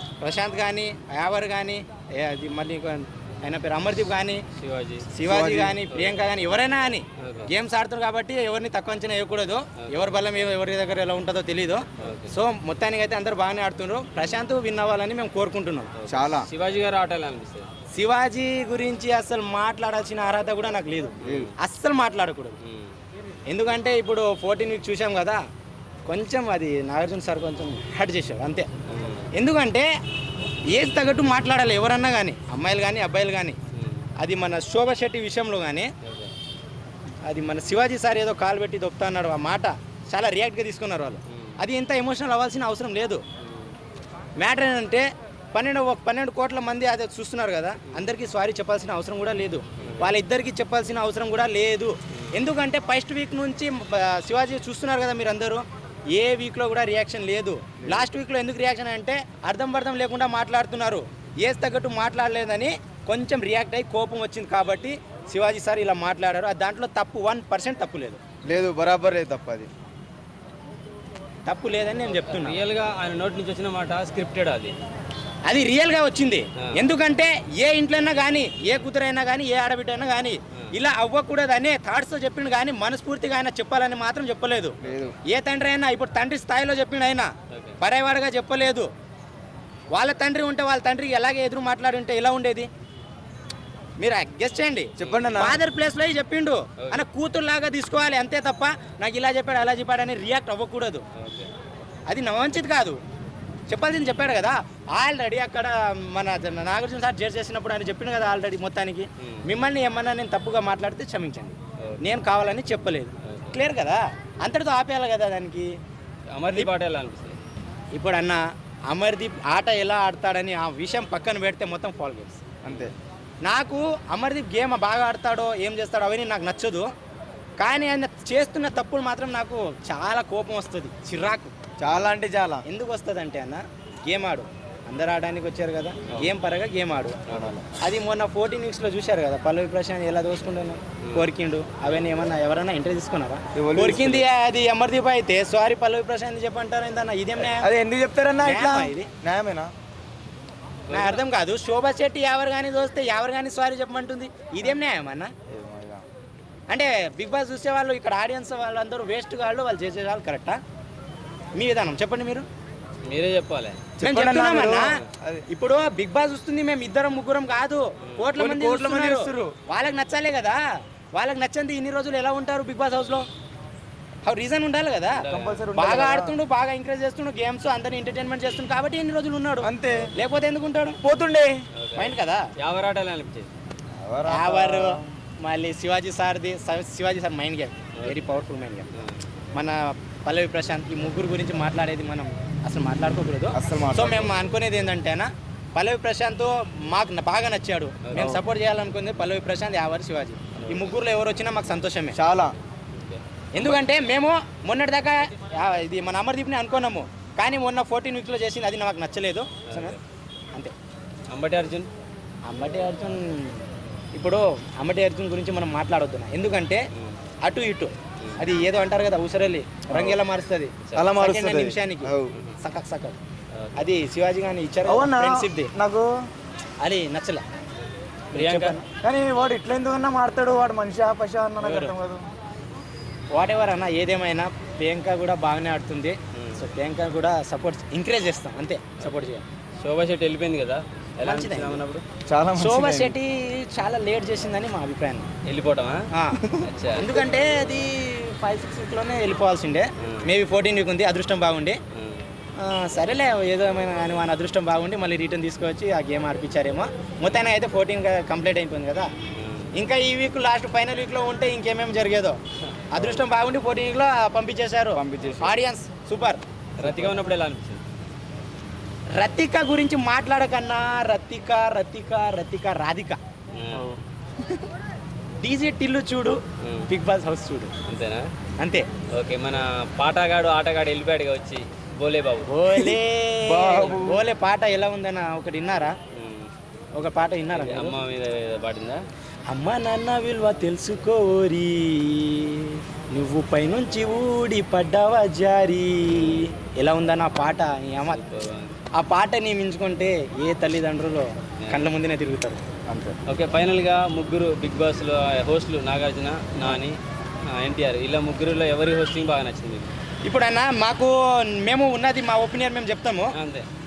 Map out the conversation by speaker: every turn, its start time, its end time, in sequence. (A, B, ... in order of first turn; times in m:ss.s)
0:00.2-0:04.4 A
0:04.6-0:05.2 B
0:05.1-0:15.9 A
0:05.2-0:05.8 C
0:05.9-0:06.3 B
0:07.2-0:07.5 B
0:09.8-0:10.2 B
0:12.0-0:12.3 B
0:16.0-0:17.7 B
0:16.1-0:16.5 C
0:17.9-0:22.6 A
0:21.2-0:21.5 B
0:21.2-0:21.5 C
0:22.7-0:22.9 B
0:23.5-0:25.4 A
0:26.1-0:28.7 A
0:28.9-0:29.3 B
0:29.4-0:29.9 A
0:30.7-0:33.6 A
0:33.8-0:34.1 B
0:34.2-0:35.9 A
0:36.0-0:36.3 B
0:37.2-0:43.2 A
0:41.3-0:41.6 B
0:43.4-0:43.7 B
0:44.4-1:08.2 A
0:49.8-0:50.2 B
0:52.1-0:52.4 B
0:57.8-0:58.1 C
1:08.4-1:09.7 C
1:11.5-1:12.6 A
1:12.0-1:14.8 B
1:15.5-1:28.9 A
1:16.6-1:16.9 B
1:24.8-1:25.2 C
1:27.5-1:27.8 B
1:29.9-1:32.7 A
1:34.0-1:41.0 A
1:35.0-1:35.6 C
1:35.0-1:35.4 B
1:41.2-1:41.5 B
1:42.1-1:43.0 A
1:43.7-1:55.7 A
1:53.2-1:53.5 B
1:56.3-1:57.4 B
1:57.9-2:02.5 A
2:02.6-2:02.9 C
2:02.7-2:02.9 B
2:03.4-2:06.9 A
2:07.6-2:11.5 A
2:11.8-2:12.6 C
2:12.6-2:17.2 A
2:17.3-2:17.6 B
2:17.3-2:17.7 C
2:17.8-2:27.7 A
2:21.0-2:21.3 B
2:21.8-2:22.1 B
2:23.6-2:24.2 C
2:27.4-2:29.7 C
2:28.4-2:29.1 A
2:30.9-2:31.2 B
2:30.9-2:35.3 A
2:35.5-2:36.0 C
2:36.7-2:40.6 A
2:41.6-2:42.5 A
2:43.0-2:43.8 B
2:44.0-2:45.5 C
2:44.0-2:50.6 A
2:48.4-2:49.5 C
2:51.2-2:53.3 A
2:54.2-3:01.0 A
2:55.1-2:55.6 B
2:55.3-2:56.4 C
2:59.6-3:00.1 C
3:01.0-3:01.6 C
3:01.8-3:03.5 B
3:02.0-3:02.4 A
3:04.0-3:05.1 C
3:04.3-3:08.9 A
3:08.0-3:08.4 B
3:09.5-3:22.2 A
3:13.5-3:14.3 C
3:18.0-3:18.4 B
3:20.6-3:20.9 B
3:22.1-3:22.5 C
3:22.9-3:23.2 B
3:23.5-3:30.0 A
3:29.7-3:30.0 B
3:31.3-3:31.9 B
3:32.5-3:33.6 A
3:34.2-3:36.8 A
3:37.4-3:43.2 A
3:39.9-3:40.2 C
3:40.8-3:41.1 B
3:41.0-3:42.3 C
3:43.6-3:43.9 B
3:43.8-3:45.7 A
3:44.8-3:46.1 C
3:46.8-3:47.4 A
3:48.3-3:48.9 A
3:48.3-3:48.8 B
3:49.0-3:52.2 C
3:51.6-3:52.0 A
3:53.3-3:59.5 A
3:56.4-3:56.7 B
3:59.0-3:59.3 B
3:59.8-4:02.0 B
4:01.2-4:01.8 A
4:02.3-4:03.2 C
4:02.6-4:05.3 A
4:05.4-4:06.0 B
4:06.1-4:06.4 A
4:06.6-4:07.2 B
4:06.9-4:11.8 A
4:10.0-4:10.3 B
4:11.9-4:12.2 B
4:12.6-4:19.1 A
4:17.2-4:17.5 B
4:19.4-4:19.7 B
4:19.8-4:22.4 A
4:22.9-4:23.3 B
4:22.9-4:27.1 A
4:24.9-4:25.6 C
4:26.8-4:27.8 B
4:29.2-4:33.2 A
4:33.6-4:33.9 B
4:33.7-4:34.0 C
4:35.4-4:37.7 A
4:36.6-4:36.9 B
4:37.9-4:38.3 B
4:38.6-4:38.9 A
4:39.2-4:42.5 B
4:42.5-4:46.0 A
4:42.8-4:44.2 C
4:46.1-4:46.5 B
4:47.0-4:48.0 A
4:47.5-4:49.0 B
4:49.5-4:58.2 A
4:58.0-4:58.8 B
4:58.9-5:02.6 A
5:02.9-5:03.2 C
5:03.3-5:07.0 B
5:07.5-5:09.9 B
5:10.3-5:13.4 A
5:13.3-5:13.7 B